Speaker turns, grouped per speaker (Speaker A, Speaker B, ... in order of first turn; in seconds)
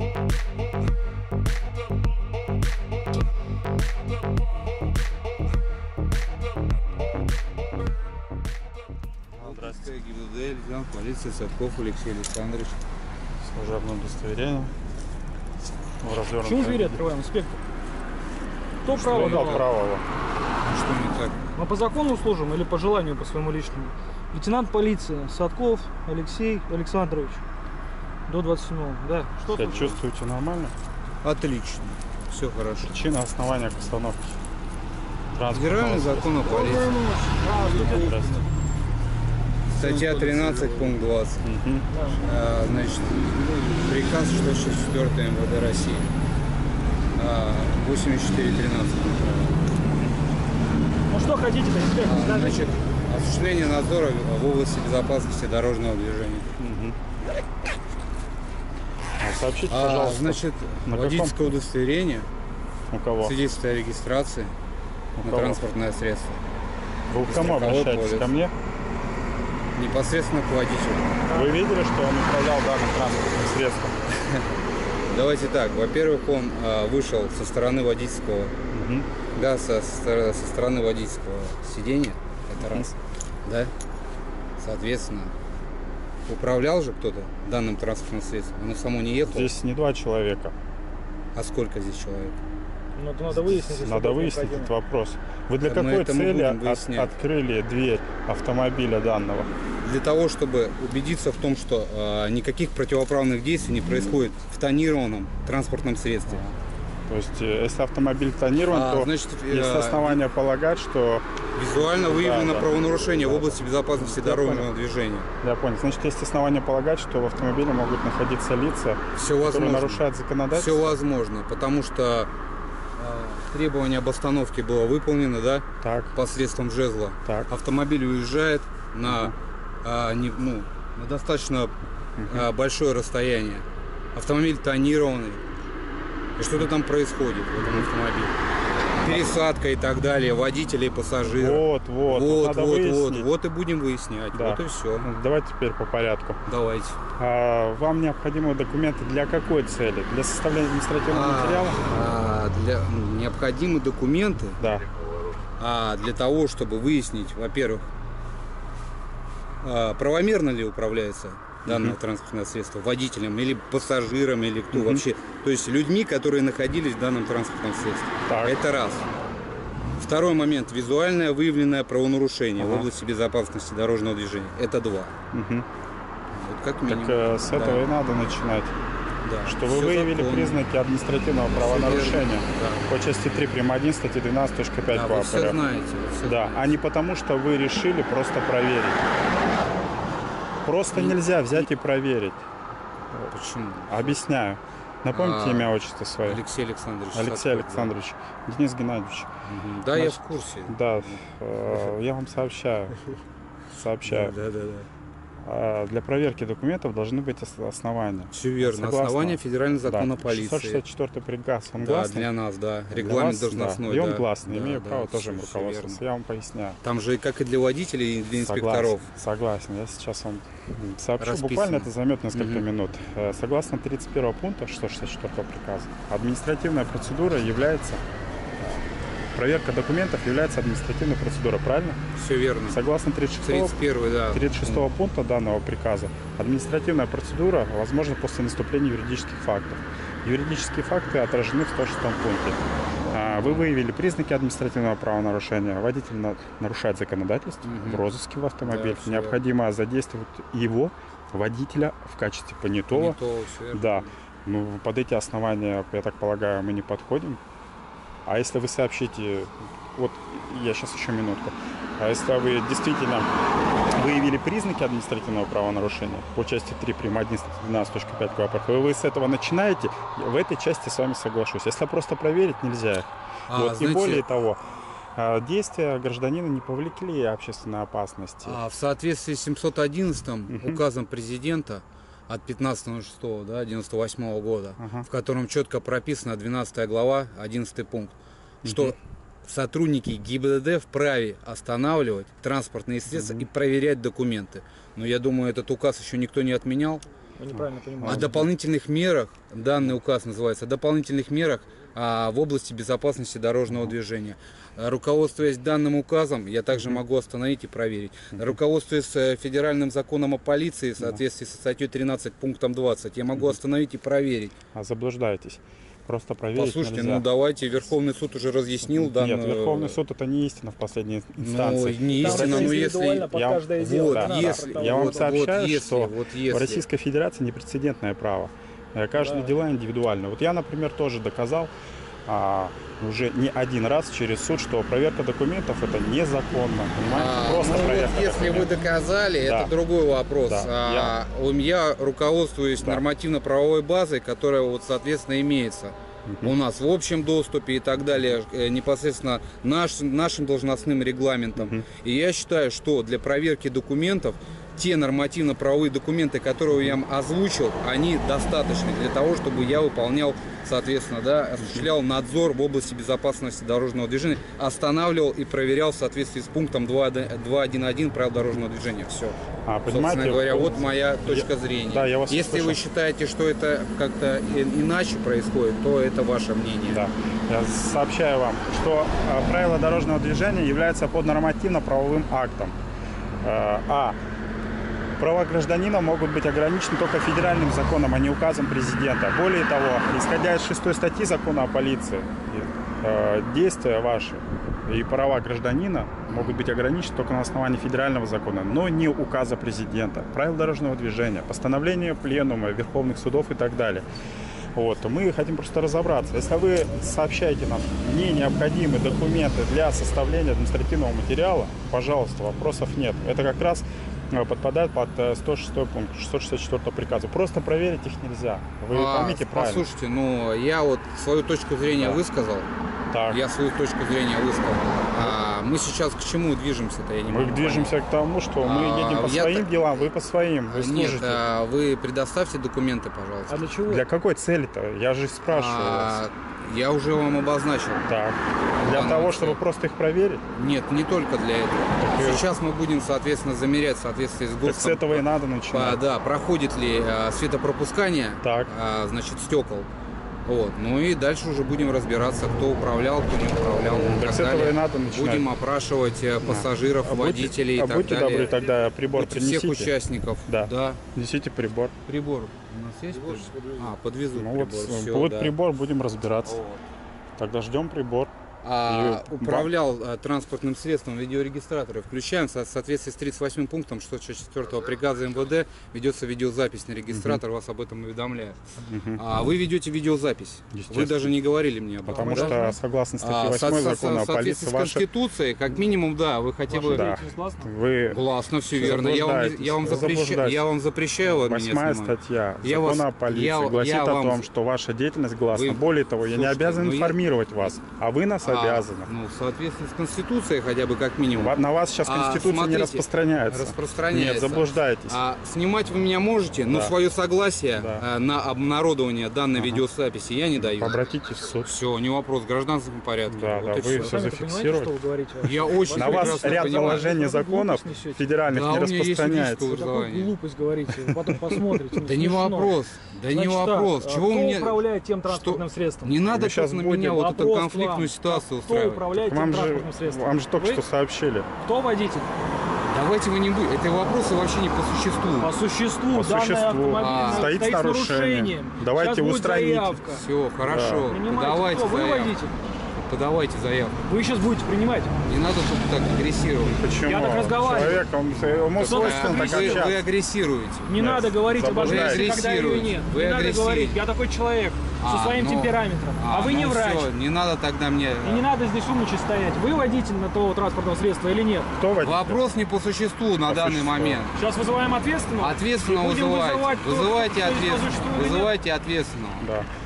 Speaker A: 9.4-9.8, 13.4-14.7, 16.0-17.1, 19.0-20.0, 29.5-30.7, 32.8-34.4, 35.3-36.6, 37.5-38.4, 39.8-41.9, 56.6-57.0, 59.2-61.4, 62.9-63.4, 65.2-65.6, 67.1-68.5, 71.3-74.0, 78.7-79.1, 82.6-83.0, 89.3-90.5, 93.3-99.5, 106.3-106.6, 107.1-114.7, 115.4-121.0, 125.8-126.1, 129.0-129.3, 132.2-132.5, 137.6-137.9, 141.2-143.3, 144.3-146.4, 147.2-151.8, 154.6-154.9, 161.7-162.0, 164.7-165.1, 168.3-168.6, 172.6-172.9, 175.3-175.7, 176.9-178.7, 179.4-185.6, 186.2-189.0, 190.6-192.4, 193.9-196.4, 197.1-199.3, 199.9-202.9, 203.7-204.3, 205.4-212.3, 212.9-216.8, 218.4-228.0, 229.3-232.0, 232.7-253.2, 253.7-257.4, 258.3-263.3, 263.9-274.6, 275.2-278.6, 280.5-280.8, 284.8-285.1, 288.6-289.0, 293.1-293.5, 297.5-298.4, 303.7-303.9, 306.8-307.0, 314.7-317.3, 318.9-331.7, 332.3-338.8, 339.4-339.7, 340.5-341.2, 346.3-346.6, 351.6-351.9, 369.7-372.8, 376.9-382.8, 383.4-384.2, 385.2-404.1, 404.8-419.9, 423.1-423.4, 427.3-431.4, 433.9-436.2, 438.1-440.4, 442.0-442.5, 444.6-446.0, 448.4-448.7, 453.9-455.5, 456.4-459.9, 460.5-461.9, 464.3-466.6, 467.4-468.3, 468.9-469.7, 477.1-477.4, 478.8-479.2, 480.7-481.4, 482.1-485.1, 486.8-490.7, 491.2-499.1, 501.3-505.2, 506.7-506.9, 507.7-508.1, 509.6-509.9, 510.6-511.7, 513.3-514.9, 515.9-519.8, 526.3-527.0, 529.1-531.5, 536.1-540.0, 540.6-541.1, 546.6-550.0, 551.0-552.4, 561.8-562.4, 563.5-564.2, 569.4-569.7
Speaker B: 9.4-12.8, 18.9-19.7, 20.6-21.5, 31.2-33.0, 35.5-37.0, 39.7-41.5, 42.1-46.1, 47.2-49.7, 52.0-56.5, 59.7-62.3, 63.2-64.5, 65.2-66.4, 67.2-68.4, 69.8-71.2, 74.1-74.5, 75.1-78.5, 79.3-82.9, 83.4-83.7, 84.6-85.3, 86.3-89.5, 91.3-92.4, 95.6-97.1, 99.8-106.4, 108.7-110.3, 111.5-115.3, 119.1-122.3, 123.0-131.7, 132.2-135.4, 136.4-138.3, 139.0-145.1, 146.5-147.0, 151.1-154.6, 155.6-157.9, 159.6-169.1, 170.0-175.1, 176.3-177.9, 179.2-180.7, 181.5-182.9, 184.9-186.8, 190.9-191.7, 193.3-194.3, 195.1-195.8, 196.3-198.0, 199.4-201.2, 204.0-204.9, 208.3-210.8, 211.8-216.0, 216.8-219.1, 221.2-222.7, 232.1-232.9, 233.4-234.9, 247.6-248.1, 248.6-249.4, 252.9-254.1, 273.5-274.3, 278.4-297.0, 298.0-314.6, 316.6-320.0, 321.4-323.3, 323.8-326.9, 337.1-377.0, 396.3-396.6, 418.9-422.7, 423.3-427.9, 428.6-430.1, 430.7-433.7, 435.5-438.1, 438.8-439.6, 440.6-449.9, 450.4-461.0, 462.1-465.5, 466.4-466.8, 468.6-478.6, 479.2-482.7, 483.2-487.2, 488.1-494.5, 495.5-497.8, 498.4-511.0, 511.6-514.2, 515.4-517.1, 518.5-520.3, 522.0-529.1, 532.9-535.5, 537.0-537.5, 540.1-542.4, 542.9-544.0, 545.3-546.9, 548.3-551.0, 551.8-554.0, 555.0-558.5, 562.0-564.4, 565.4-569.5
Speaker C: 16.4-17.6, 18.9-19.7, 21.6-27.4, 28.3-30.0, 36.4-38.5, 41.9-42.2, 51.1-52.7, 93.0-94.7, 297.4-298.5, 322.1-325.5, 329.2-329.5, 433.5-434.1, 482.1-482.8, 486.7-487.7, 513.9-518.3, 519.6-530.9, 531.6-532.3, 535.4-540.2, 541.0-542.6, 544.1-545.1, 547.0-548.1, 548.8-549.9, 550.9-557.1, 558.2-561.7, 564.3-568.5